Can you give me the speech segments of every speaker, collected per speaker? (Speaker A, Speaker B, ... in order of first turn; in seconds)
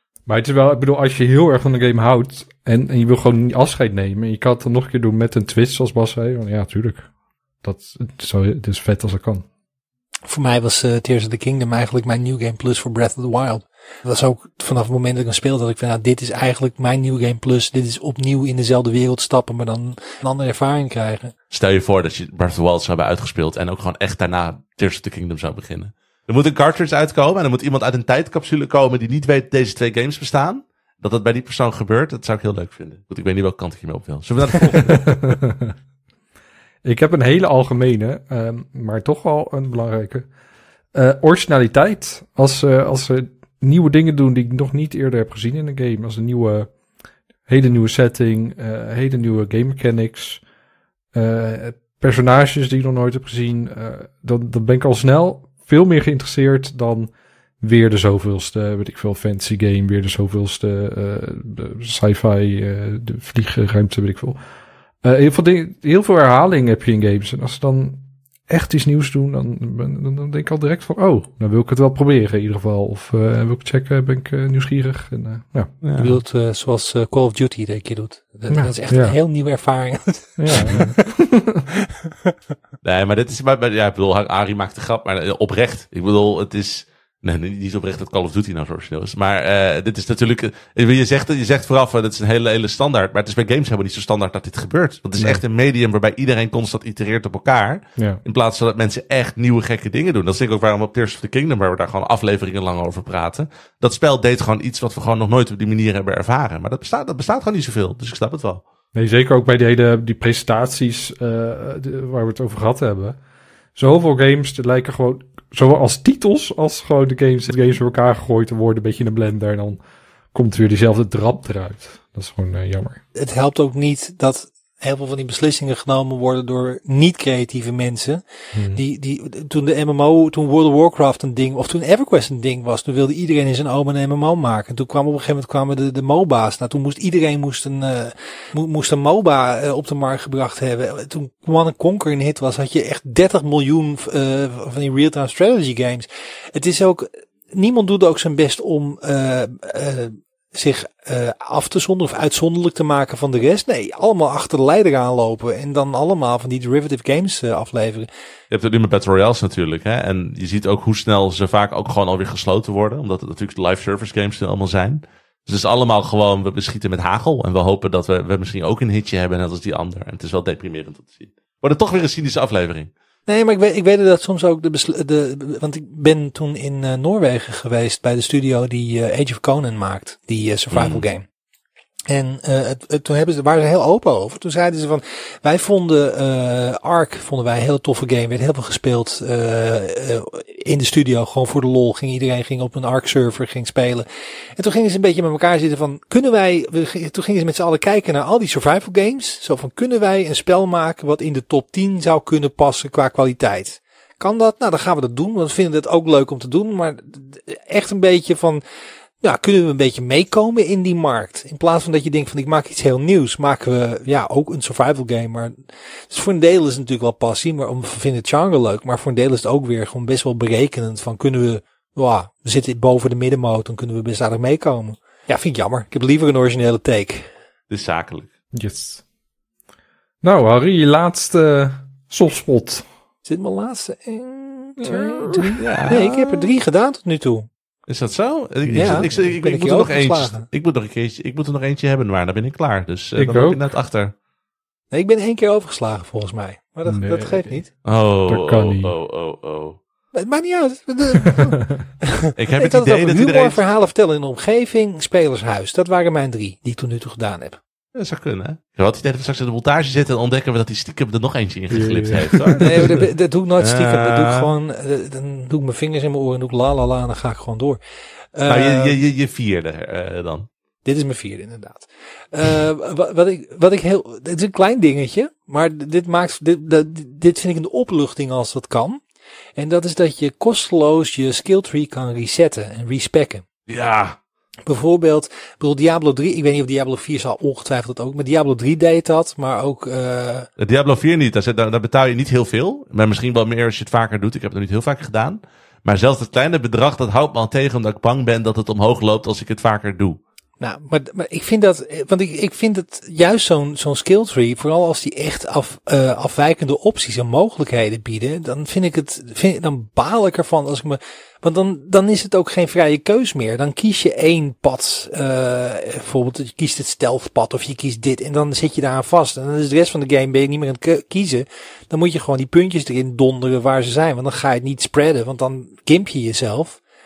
Speaker A: 0.3-7.1, 7.6-9.4, 34.8-35.7, 36.8-40.3, 40.9-46.7, 47.5-50.4, 51.1-64.4, 65.0-75.7, 78.5-79.2, 80.4-81.6, 108.9-113.2, 113.7-119.8, 120.3-123.0, 128.5-128.8, 228.5-229.0, 230.2-232.8, 234.8-235.6, 238.7-239.1, 243.2-243.6, 246.8-247.6, 248.3-248.9, 261.7-263.1
Speaker B: 10.3-21.3, 76.0-81.0, 81.8-82.3, 123.1-158.1, 173.3-181.2, 182.1-194.1, 194.6-208.6, 209.2-215.6, 216.1-227.3, 233.2-237.5, 238.7-240.4, 244.9-247.7, 250.1-257.6, 262.6-267.8, 268.3-269.0, 270.8-279.0, 279.6-283.4, 284.7-290.5, 300.6-326.8
Speaker C: 21.5-35.1, 75.8-76.2, 82.8-108.6, 158.5-172.9, 180.7-181.0, 227.7-228.3, 235.6-236.5, 237.9-244.1, 247.8-249.8, 252.3-253.6, 257.9-262.9, 263.6-264.5, 268.5-270.5, 283.7-284.2, 290.6-300.2